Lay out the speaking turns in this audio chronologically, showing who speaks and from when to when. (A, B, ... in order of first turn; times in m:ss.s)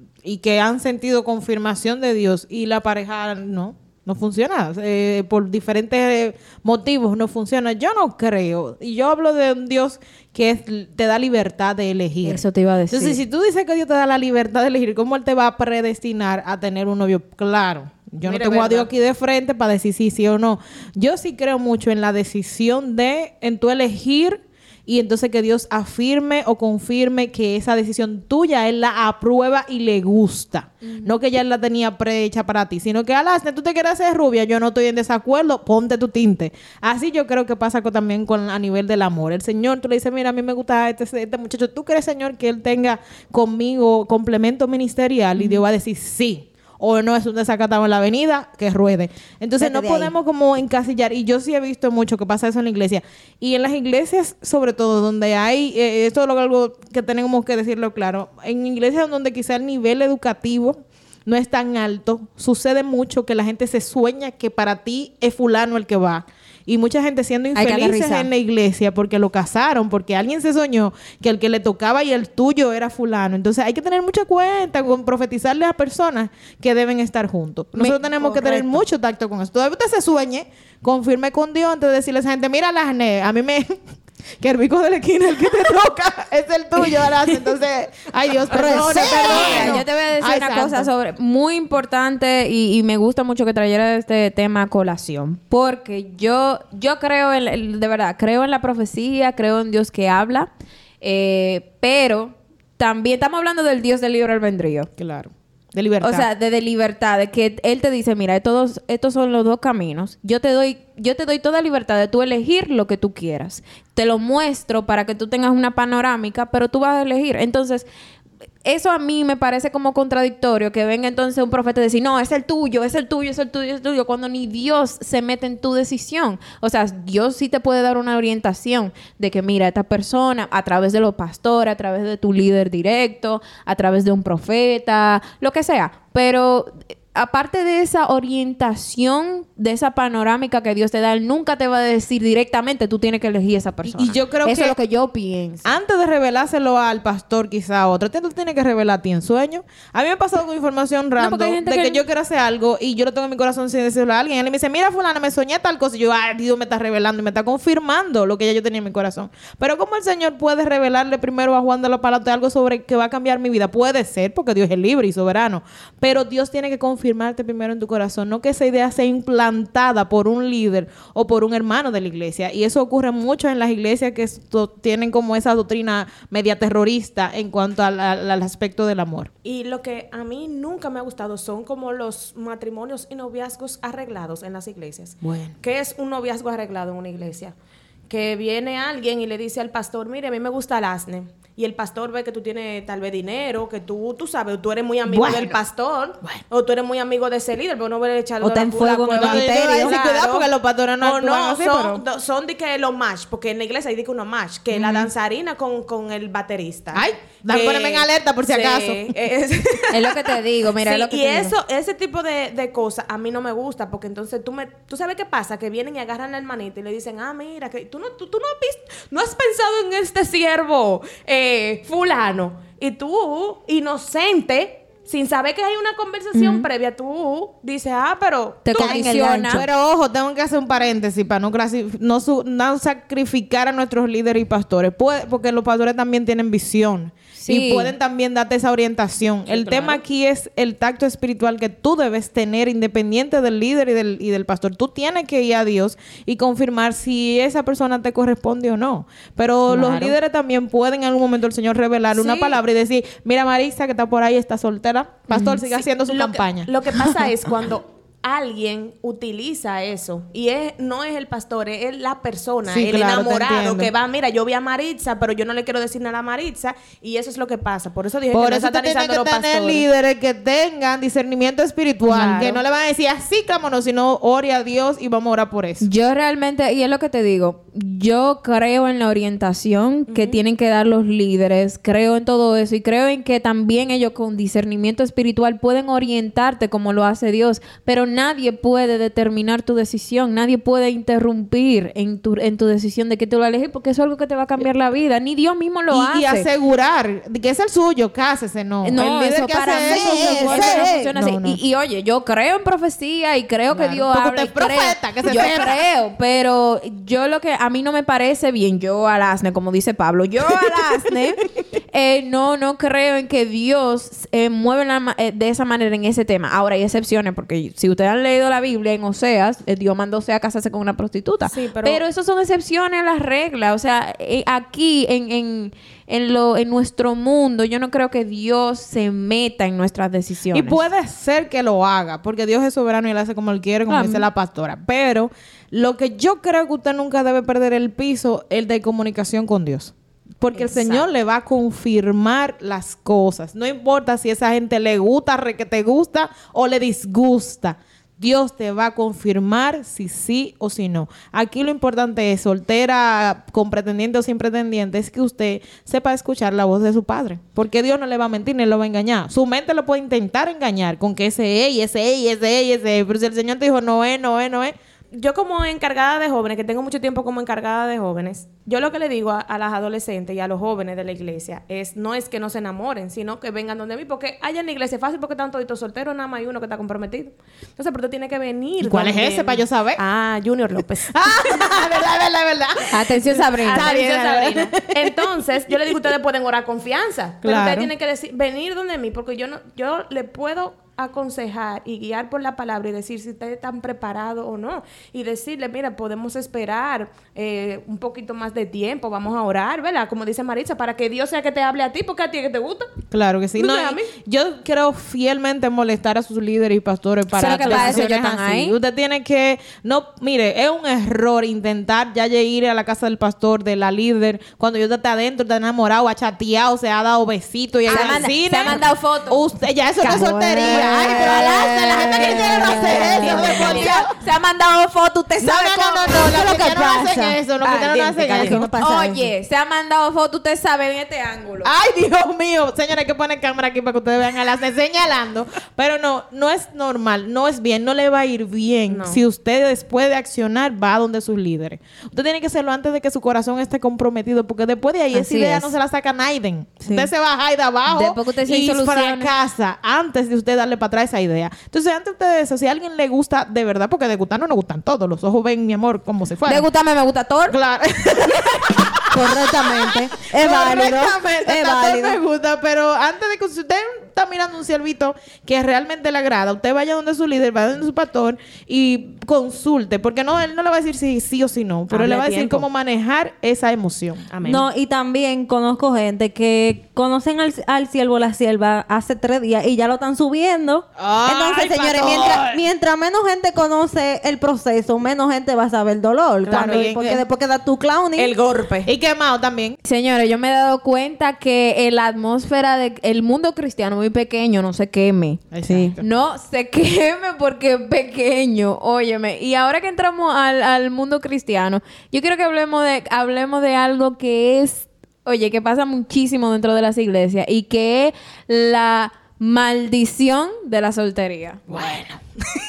0:00.2-1:23.8 A
0:12.2-0:13.2 B
0:18.2-0:18.7 B
0:18.4-0:18.9 C
0:30.8-0:31.2 B
0:45.4-0:45.6 B
0:49.6-0:50.1 D
1:07.6-1:08.3 B
1:17.8-1:18.6 B
1:24.4-1:30.9 A
1:28.5-1:29.8 D
1:29.0-1:40.5 B
1:41.0-1:44.9 B
1:45.0-1:46.2 A
1:46.0-1:57.9 B
1:58.6-2:25.7 B
2:23.8-2:24.8 A
2:25.6-2:59.3 A
2:31.2-2:32.0 B
2:59.4-3:07.5 C
3:05.2-3:05.5 A
3:08.1-3:49.2 C
3:15.1-3:15.6 A
3:18.4-3:20.0 D
3:19.1-3:22.0 A
3:24.7-3:25.1 A
3:26.9-3:29.1 A
3:29.9-3:31.6 B
3:46.3-3:46.7 B
3:48.7-3:49.6 B
3:48.8-3:49.7 D
3:49.5-4:16.7 A
3:57.4-3:57.9 B
3:59.5-4:00.0 C
4:12.2-4:12.6 C
4:15.6-4:29.9 C
4:22.7-4:23.9 A
4:28.3-4:35.9 A
4:32.1-4:32.6 C
4:35.8-4:56.5 B
4:40.1-4:40.4 C
4:55.9-5:01.6 A
4:58.8-5:30.8 B
4:59.7-5:01.1 D
5:03.7-5:05.8 A
5:21.5-5:22.0 C
5:30.5-6:04.7 A
5:33.9-5:34.3 B
5:40.5-5:41.1 C
6:05.2-6:21.9 C
6:18.8-6:20.0 A
6:21.1-6:25.2 A
6:22.9-6:23.9 B
6:23.6-6:42.9 C
6:27.4-6:27.9 A
6:43.1-7:04.2 A
6:43.6-6:44.1 C
6:47.3-6:48.7 B
6:47.4-6:48.0 C
6:47.7-6:48.0 D
6:57.9-6:59.4 B
6:57.9-6:58.3 C
7:00.0-7:04.0 C
7:00.0-7:06.2 B
7:00.8-7:03.8 D
7:05.4-7:08.8 A
7:06.1-7:07.4 D
7:07.6-7:08.6 C
7:08.3-7:09.3 D
7:08.8-7:11.7 B
7:11.6-7:36.7 A
7:18.9-7:19.2 C
7:25.1-7:25.7 B
7:26.8-7:27.1 D
7:27.9-7:29.3 B
7:36.5-7:37.6 B
7:37.5-7:54.3 A
7:39.1-7:42.2 D
7:51.9-7:52.7 C
7:54.3-7:54.6 C
7:54.4-8:08.4 D
8:01.0-8:02.6 A
8:01.5-8:02.4 C
8:06.4-8:06.9 C
8:06.5-8:07.2 A
8:08.2-8:08.9 C
8:08.9-8:09.8 A
8:09.9-8:15.4 B
8:15.5-8:16.0 A
8:15.7-8:16.0 D
8:16.0-8:31.8 B
8:31.7-8:32.2 A